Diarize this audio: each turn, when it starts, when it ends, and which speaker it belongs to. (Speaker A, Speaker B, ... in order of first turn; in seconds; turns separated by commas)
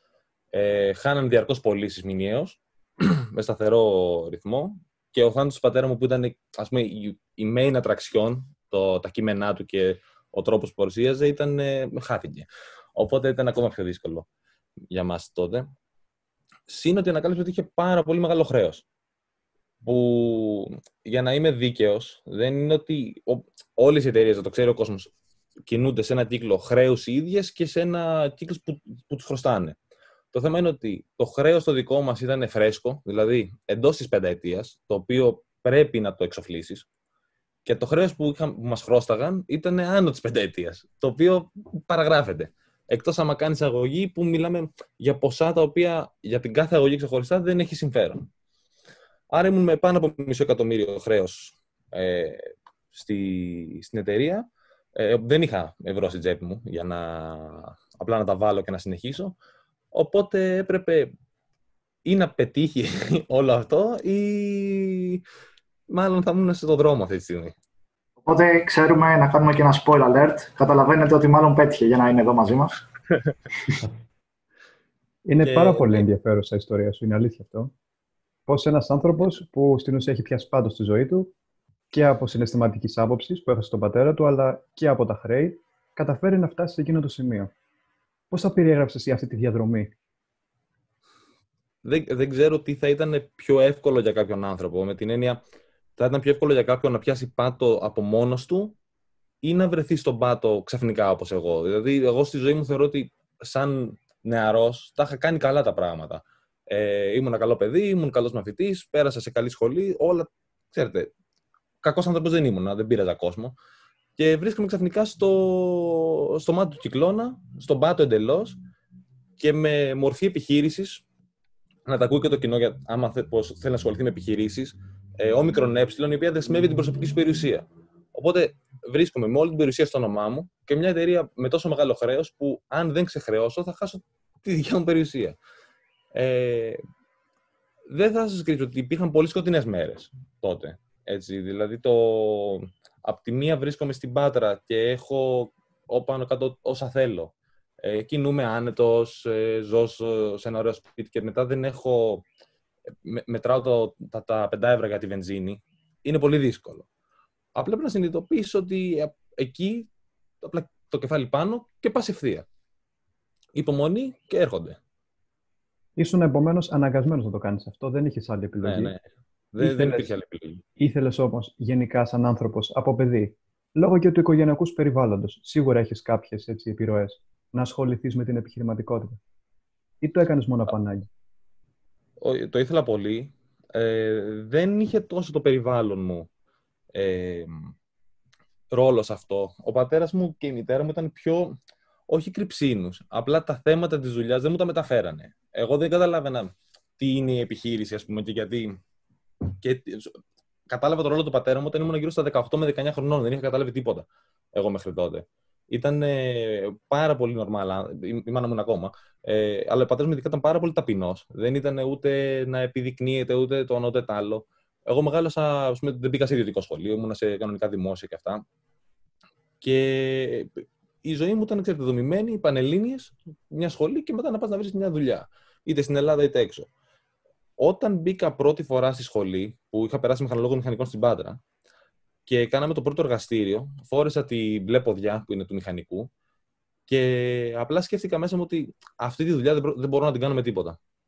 Speaker A: 0.5-14.3, Speaker A: 14.9-15.7, Speaker A: 16.7-18.8, Speaker A: 19.8-25.1, Speaker A: 25.7-29.8, Speaker A: 30.3-36.9, Speaker A: 37.6-48.2, Speaker A: 49.3-59.4, Speaker A: 59.9-61.1, Speaker A: 62.0-65.2, Speaker A: 65.9-67.5, Speaker B: 68.2-72.8, Speaker C: 75.2-77.7, Speaker A: 75.4-76.0, Speaker C: 78.5-81.3, Speaker C: 81.9-87.5, Speaker C: 88.3-89.9, Speaker A: 91.8-95.4, Speaker A: 96.0-98.8, Speaker A: 99.4-111.1, Speaker A: 111.8-113.5, Speaker A: 114.2-118.6, Speaker A: 119.4-121.0, Speaker A: 121.8-135.4, Speaker A: 136.1-136.8, Speaker A: 137.9-152.2, Speaker A: 153.0-156.8, Speaker A: 157.5-159.9, Speaker A: 160.4-162.4, Speaker A: 163.5-164.8, Speaker C: 165.9-168.9, Speaker A: 168.6-170.6, Speaker C: 169.6-170.1, Speaker C: 170.8-179.2, Speaker C: 180.0-181.1, Speaker A: 182.2-186.3, Speaker A: 186.9-187.7, Speaker A: 188.7-191.5, Speaker A: 192.1-198.8, Speaker A: 199.5-200.2, Speaker A: 200.7-218.4, Speaker A: 219.6-226.7, Speaker A: 227.6-231.4, Speaker A: 232.3-236.1, Speaker A: 236.9-240.8